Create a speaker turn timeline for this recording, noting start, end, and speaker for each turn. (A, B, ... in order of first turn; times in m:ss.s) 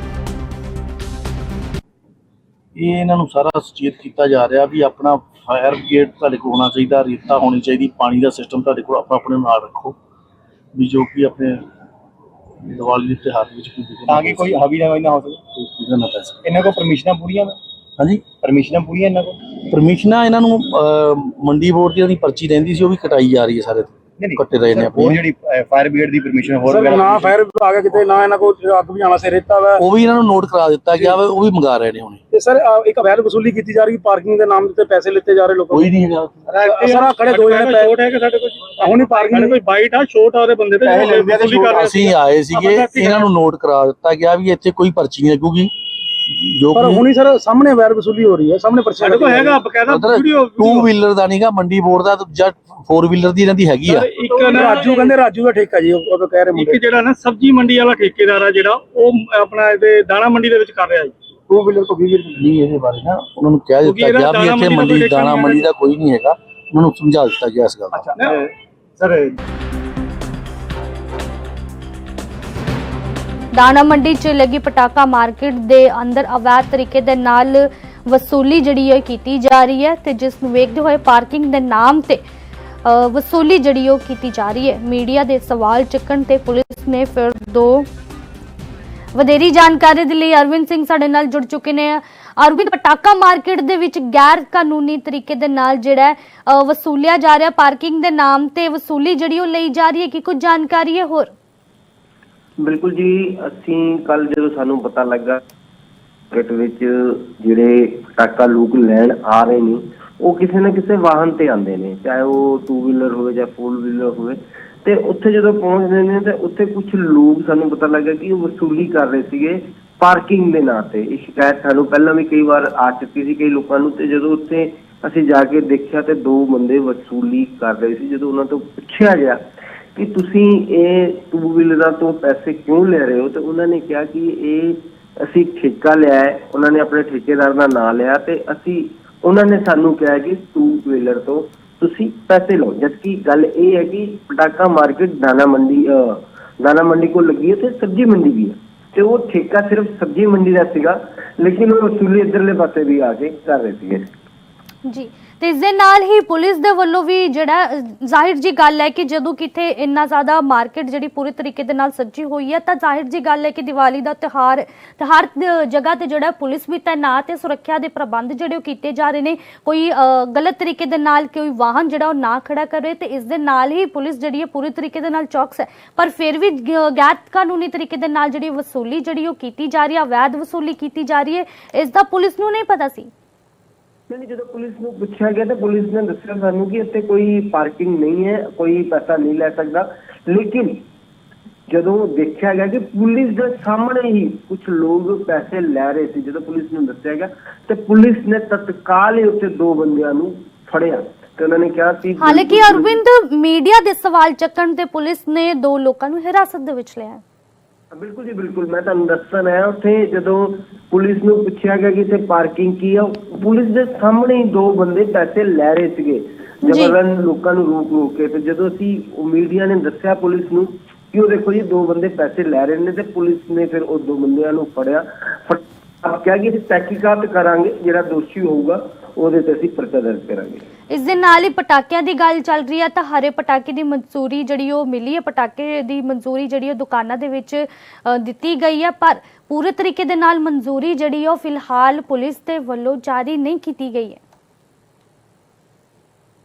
0:02.8-0:10.0 A
0:10.7-0:11.6 A
0:12.6-0:14.6 A
0:14.1-0:15.4 B
0:15.6-0:16.4 A
0:16.4-0:17.6 B
0:18.0-0:18.2 A
0:18.4-0:19.4 B
0:19.6-0:25.2 A
0:24.2-0:27.4 B
0:26.6-0:29.8 C
0:29.8-0:32.2 A
0:32.3-0:35.9 C
0:35.7-0:36.4 A
0:36.5-0:36.8 B
0:36.6-0:37.9 C
0:36.6-0:43.3 D
0:38.8-0:39.6 C
0:40.8-0:41.9 B
0:41.8-0:45.7 A
0:46.2-0:47.0 A
0:46.7-0:49.6 C
0:49.0-0:50.9 D
0:49.9-0:54.1 A
0:53.9-0:55.1 D
0:54.2-0:56.8 C
0:56.5-1:01.1 D
1:01.5-1:02.4 C
1:02.4-1:08.0 A
1:03.8-1:05.7 D
1:07.9-1:09.3 B
1:08.2-1:08.4 D
1:13.5-1:22.2 E
1:22.8-1:27.8 E
1:29.1-1:41.3 E
1:42.6-1:45.4 F
1:46.3-2:09.4 F
2:09.9-2:34.0 F
2:34.8-3:03.1 E
3:04.1-3:10.8 F
3:11.7-3:23.0 F
3:22.2-3:27.2 E
3:27.9-3:50.6 F
3:36.6-3:37.0 E
3:50.9-4:04.2 E